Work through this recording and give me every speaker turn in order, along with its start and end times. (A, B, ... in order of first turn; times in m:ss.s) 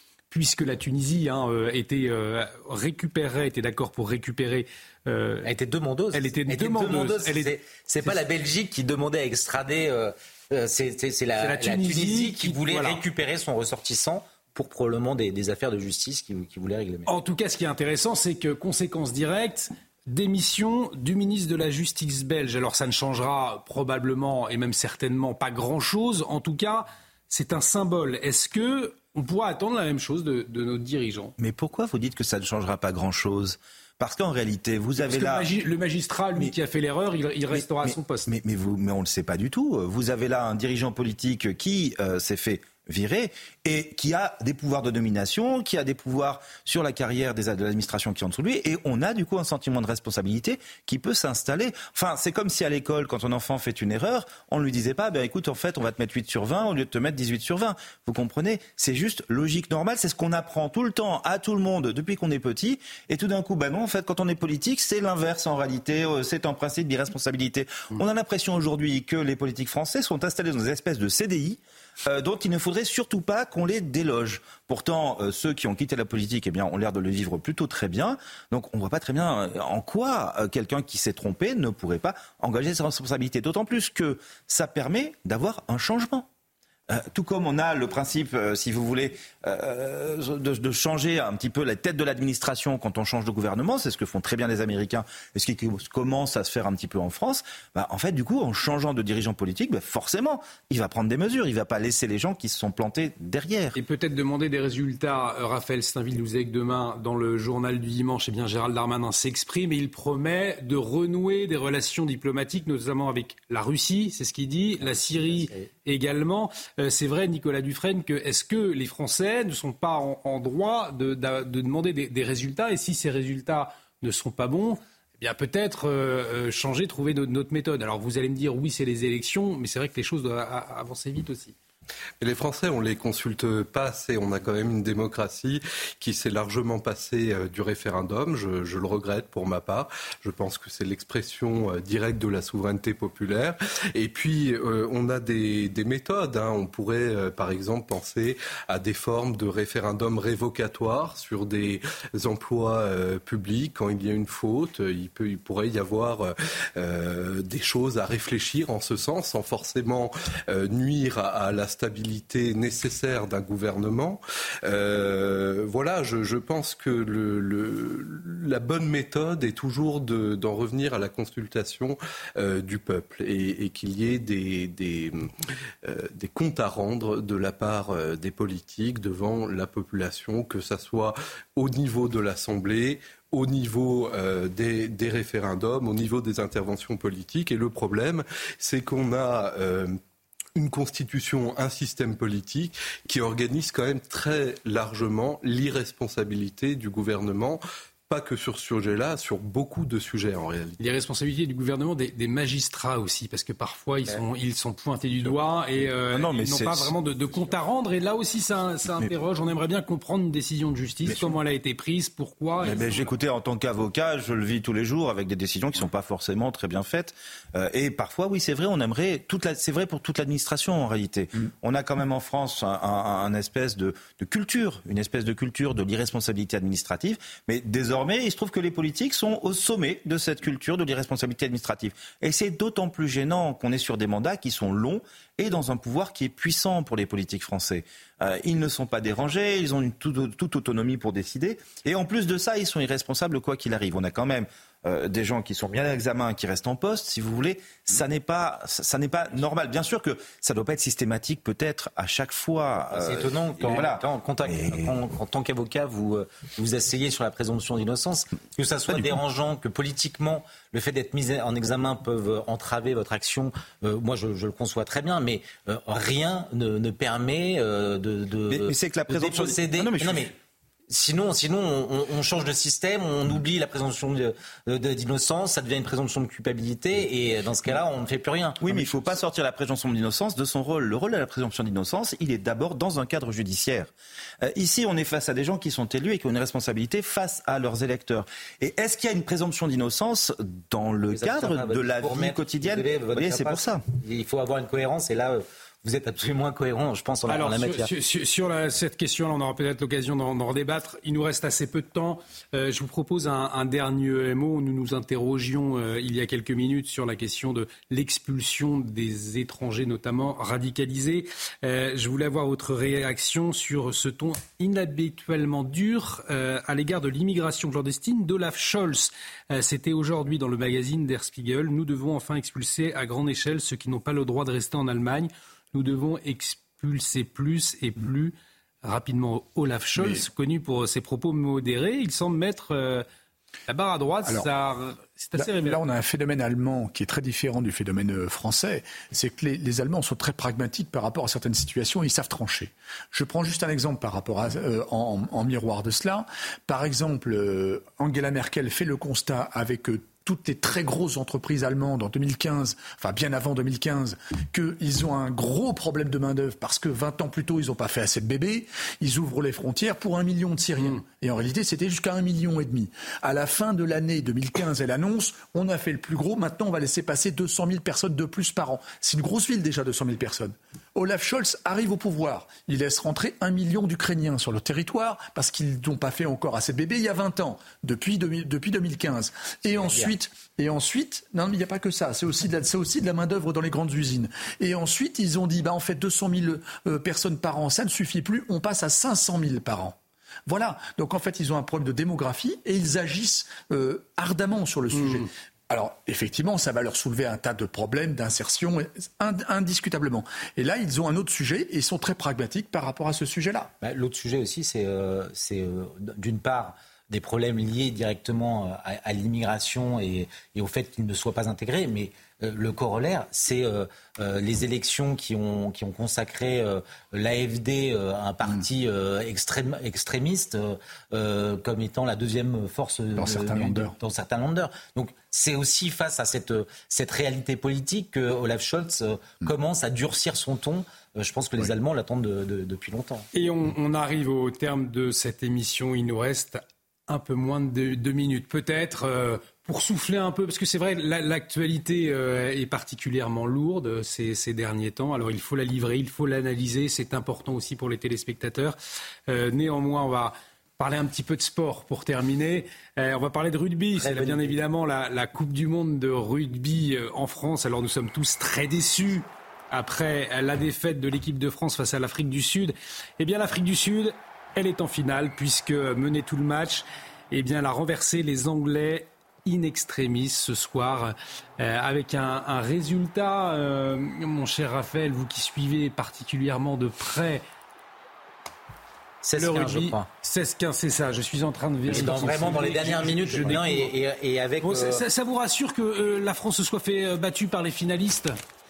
0:00.3-0:05.5 A
0:05.4-0:17.1 B
0:06.1-0:08.2 A
0:11.4-0:13.0 A
0:17.1-0:31.4 A
0:31.4-0:35.5 C
0:35.0-0:38.3 A
0:37.5-1:26.3 C
1:26.9-1:43.8 C
1:43.7-2:11.6 A
1:54.8-1:55.7 B
2:12.2-2:55.3 D
2:55.8-3:10.0 D
3:10.6-3:20.8 D
3:20.8-3:33.1 A
3:25.2-3:26.9 C
3:31.1-3:31.3 C
3:32.6-4:15.0 C
4:12.9-4:30.3 B
4:28.5-4:30.3 C
4:30.9-4:39.2 B
4:38.6-4:43.9 C
4:44.4-4:53.8 C
4:51.1-4:57.9 B
4:57.3-5:33.0 A
5:30.0-5:30.2 E
5:33.7-5:35.8 A
5:35.4-6:43.7 E
6:19.7-6:20.2 B
6:34.9-6:35.3 A
6:43.8-7:13.3 B
7:03.2-7:03.9 E
7:13.3-7:28.8 A
7:29.3-7:57.4 A
7:33.9-7:34.6 B
7:59.2-8:00.1 B
7:59.4-8:03.9 A
8:01.9-8:05.0 B
8:04.6-8:08.4 A